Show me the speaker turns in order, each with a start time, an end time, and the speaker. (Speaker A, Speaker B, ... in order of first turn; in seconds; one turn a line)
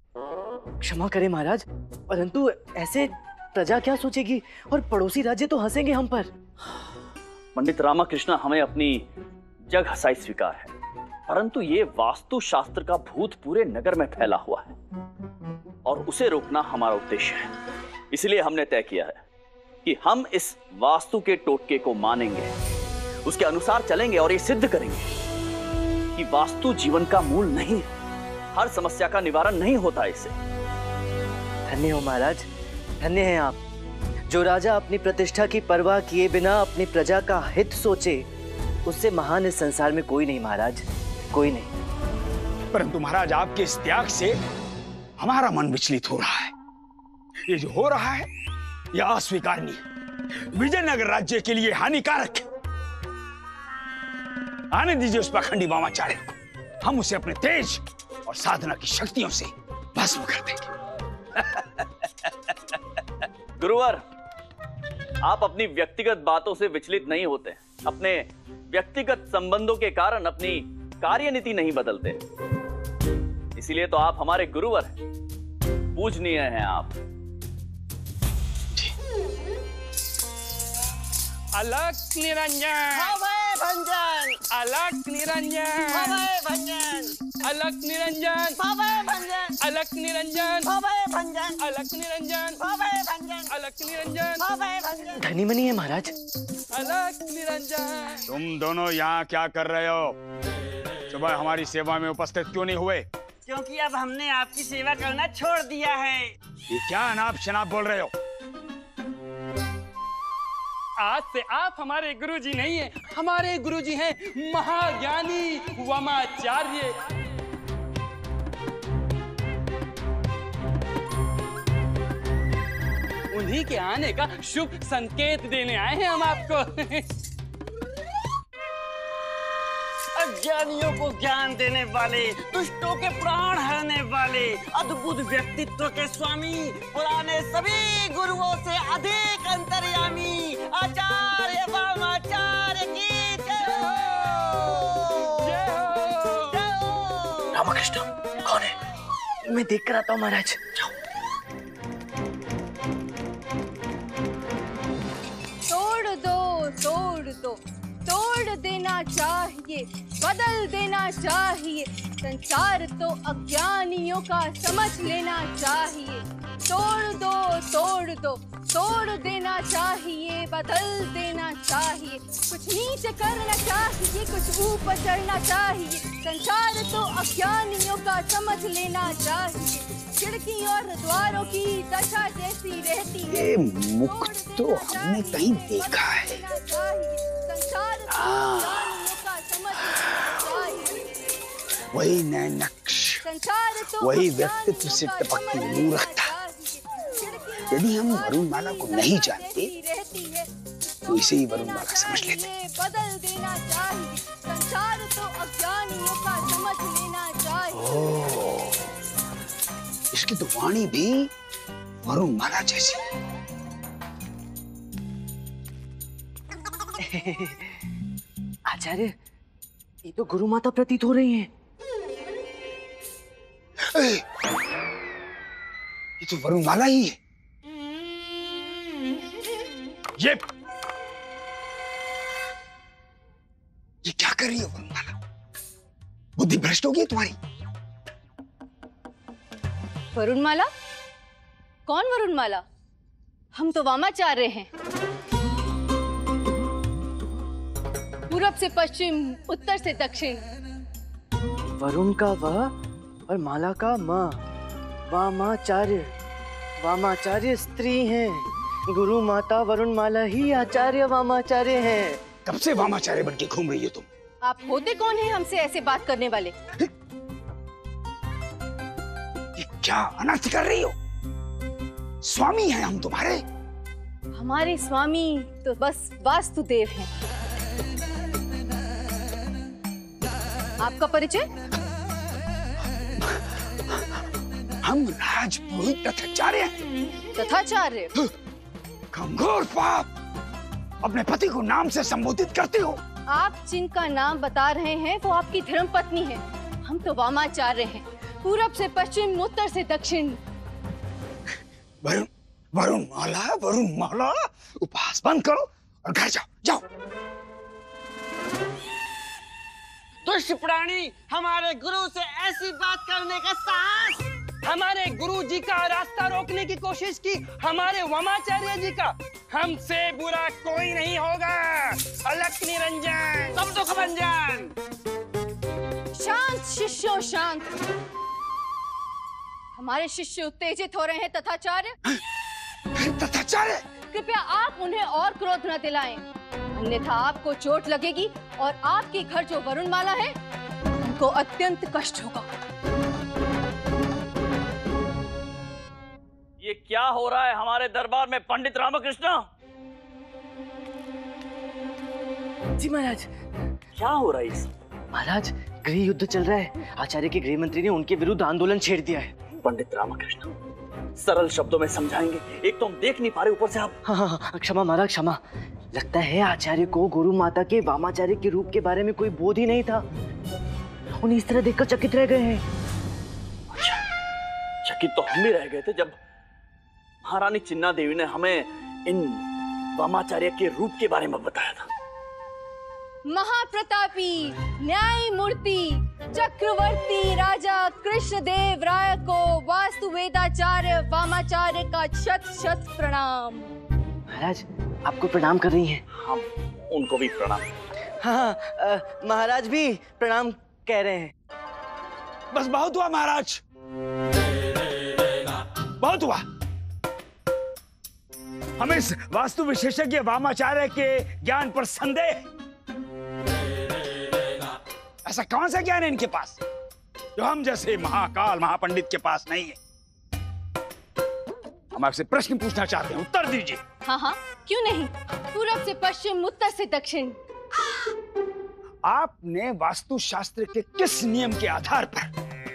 Speaker A: 0.8-6.3
Speaker B: 7.5-9.0
Speaker B: 9.7-10.7
Speaker B: 11.3-14.8
Speaker B: 15.8-17.5
Speaker B: 18.1-19.2
Speaker B: 19.8-22.5
Speaker B: 23.2-25.1
Speaker B: 26.1-27.9
Speaker B: 28.6-30.3
Speaker A: 31.7-32.5
Speaker A: 33.0-33.6
Speaker A: 34.3-38.3
Speaker A: 38.9-41.7
Speaker C: 42.7-44.4
Speaker C: 45.2-46.5
Speaker C: 47.5-48.3
Speaker C: 48.9-49.8
Speaker C: 50.5-52.5
Speaker C: 54.7-60.7
Speaker C: 61.4-62.5
Speaker B: 63.6-64.0
Speaker B: 65.2-72.2
Speaker B: 73.6-75.0
Speaker B: 76.0-76.9
Speaker D: 81.5-83.2
Speaker E: 82.9-84.4
Speaker D: 84.5-86.2
Speaker E: 85.9-87.1
Speaker D: 87.4-88.6
Speaker E: 88.6-89.6
Speaker D: 89.6-90.7
Speaker E: 90.6-91.6
Speaker D: 91.6-92.6
Speaker E: 92.6-93.5
Speaker D: 93.5-94.4
Speaker E: 94.4-95.2
Speaker A: 95.2-96.1
Speaker D: 96.7-98.2
Speaker C: 98.3-100.2
Speaker C: 101.1-103.0
Speaker E: 103.5-106.3
Speaker C: 106.7-108.1
Speaker D: 111.0-117.2
Speaker D: 123.3-127.0
Speaker E: 130.2-145.6
Speaker D: 143.7-144.4
Speaker D: 145.4-146.6
Speaker E: 146.5-147.6
Speaker B: 147.6-148.7
Speaker A: 149.5-150.8
Speaker F: 155.7-183.5
Speaker C: 183.3-186.4
Speaker F: 184.0-191.0
Speaker C: 188.1-189.1
Speaker C: 191.9-193.2
Speaker F: 193.2-200.5
Speaker C: 194.0-196.3
Speaker C: 197.7-199.7
Speaker C: 201.1-202.4
Speaker F: 201.1-208.1
Speaker C: 207.8-208.9
Speaker C: 210.1-211.3
Speaker C: 212.0-213.0
Speaker A: 217.0-217.8
Speaker A: 218.7-219.2
Speaker A: 220.0-221.5
Speaker C: 223.8-224.2
Speaker C: 226.2-227.2
Speaker C: 234.0-235.1
Speaker C: 236.4-237.4
Speaker F: 240.2-240.7
Speaker F: 241.9-242.6
Speaker F: 243.5-244.7
Speaker F: 248.3-250.4
Speaker A: 251.8-252.8
Speaker A: 253.3-254.4
Speaker A: 255.1-256.1
Speaker A: 256.8-262.2
Speaker C: 262.5-264.1
Speaker F: 264.4-266.5
Speaker C: 269.6-270.9
Speaker C: 272.2-273.4
Speaker F: 274.3-277.1
Speaker F: 280.8-281.5
Speaker C: 283.2-284.2
Speaker C: 284.8-286.8
Speaker F: 287.4-288.1
Speaker C: 289.1-290.1
Speaker C: 291.0-293.0
Speaker F: 293.3-300.4
Speaker C: 302.0-306.8
Speaker E: 310.2-314.2
Speaker D: 314.6-323.6
Speaker E: 323.5-324.7
Speaker F: 326.1-327.7
Speaker F: 329.8-332.0
Speaker C: 333.0-333.8
Speaker F: 334.1-336.2
Speaker F: 336.8-340.4
Speaker F: 341.0-342.5
Speaker B: 346.6-349.5
Speaker A: 352.8-353.3
Speaker B: 354.0-354.7
Speaker A: 355.1-359.3
Speaker B: 359.6-360.5
Speaker B: 361.2-364.0
Speaker A: 364.1-365.4
Speaker A: 365.9-370.0
Speaker A: 371.2-372.6
Speaker B: 373.7-374.0
Speaker B: 374.8-376.2
Speaker B: 377.2-379.4
Speaker B: 380.0-381.9
Speaker F: 383.3-393.7
Speaker A: 394.3-396.0
Speaker B: 396.1-397.7
Speaker A: 398.2-401.3
Speaker C: 402.5-403.6
Speaker C: 406.0-406.4
Speaker C: 408.8-412.4
Speaker C: 415.2-416.6
Speaker C: 417.4-419.8
Speaker C: 421.9-423.8
Speaker F: 424.1-427.4
Speaker C: 429.1-432.3